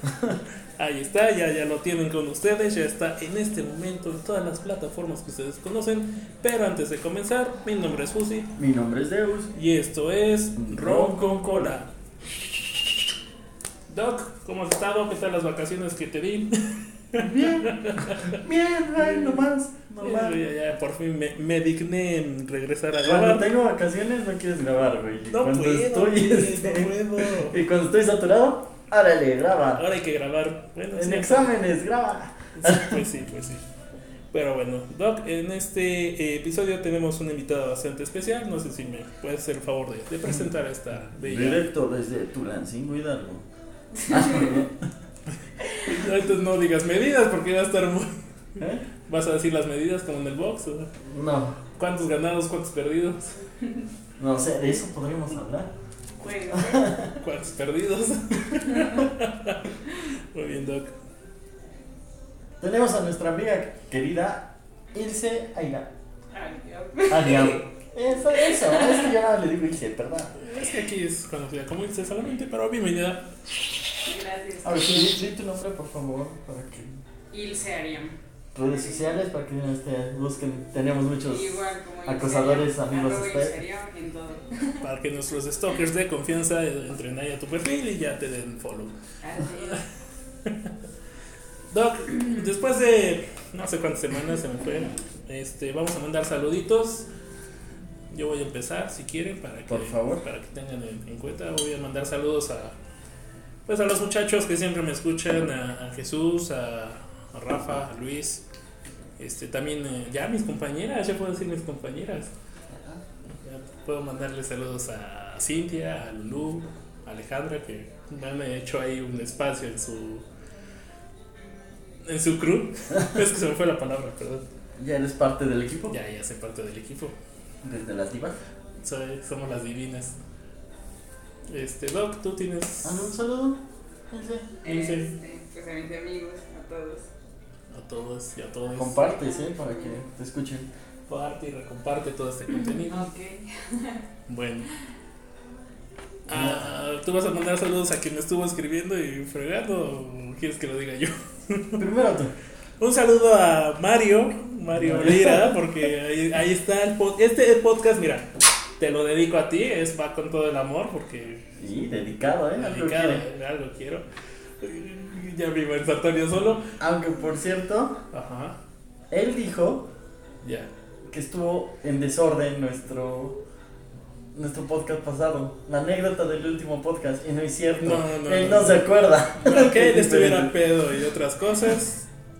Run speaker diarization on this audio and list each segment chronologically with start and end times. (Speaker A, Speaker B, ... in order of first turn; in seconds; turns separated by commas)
Speaker A: 0.8-8.5, Speaker B: 8.6-9.5, Speaker A: 9.5-11.9, Speaker B: 10.6-11.7, Speaker A: 13.9-18.4, Speaker B: 17.2-20.4, Speaker A: 19.0-19.4, Speaker A: 20.0-23.4, Speaker B: 23.0-29.8, Speaker A: 25.3-27.6, Speaker A: 29.8-31.6, Speaker B: 30.9-33.0, Speaker A: 32.5-33.6, Speaker A: 34.3-41.6, Speaker B: 41.1-43.5, Speaker C: 43.9-44.6, Speaker B: 44.0-44.9, Speaker A: 45.8-48.2, Speaker A: 49.0-50.9, Speaker B: 51.0-51.6, Speaker A: 51.8-53.4, Speaker B: 54.2-55.7, Speaker C: 56.2-56.9, Speaker B: 56.5-57.2, Speaker A: 57.2-60.9, Speaker C: 58.6-59.0, Speaker B: 62.6-65.9, Speaker C: 66.3-67.6, Speaker B: 67.1-70.4, Speaker C: 68.3-69.1, Speaker A: 70.4-73.3, Speaker C: 74.0-75.0, Speaker B: 74.6-76.9, Speaker C: 77.3-79.2, Speaker B: 78.5-83.6, Speaker C: 81.3-84.8, Speaker A: 84.8-88.9, Speaker C: 89.2-89.9, Speaker A: 90.4-90.7, Speaker A: 91.7-97.1, Speaker A: 98.1-102.7, Speaker B: 99.7-100.2, Speaker A: 103.7-108.4, Speaker A: 109.2-112.3, Speaker B: 112.7-113.0, Speaker A: 113.4-120.2, Speaker A: 122.0-124.4, Speaker B: 124.8-125.9, Speaker A: 125.9-127.1, Speaker B: 127.6-128.3, Speaker A: 128.8-130.2, Speaker A: 131.5-133.1, Speaker B: 132.8-134.5, Speaker C: 134.6-137.1, Speaker A: 134.6-135.1, Speaker A: 137.7-139.0, Speaker B: 138.7-140.7, Speaker C: 139.0-140.0, Speaker A: 141.1-143.1, Speaker C: 142.6-144.0, Speaker A: 144.3-144.7, Speaker A: 146.3-151.8, Speaker B: 146.3-146.6, Speaker B: 151.8-152.3, Speaker A: 152.8-161.5, Speaker B: 154.7-155.6, Speaker B: 161.6-163.2, Speaker A: 162.6-164.0, Speaker A: 164.6-166.7, Speaker B: 166.8-168.0, Speaker A: 168.1-168.6, Speaker B: 169.1-169.9, Speaker A: 170.4-170.7, Speaker B: 171.1-173.4, Speaker B: 174.3-180.5, Speaker A: 177.8-182.1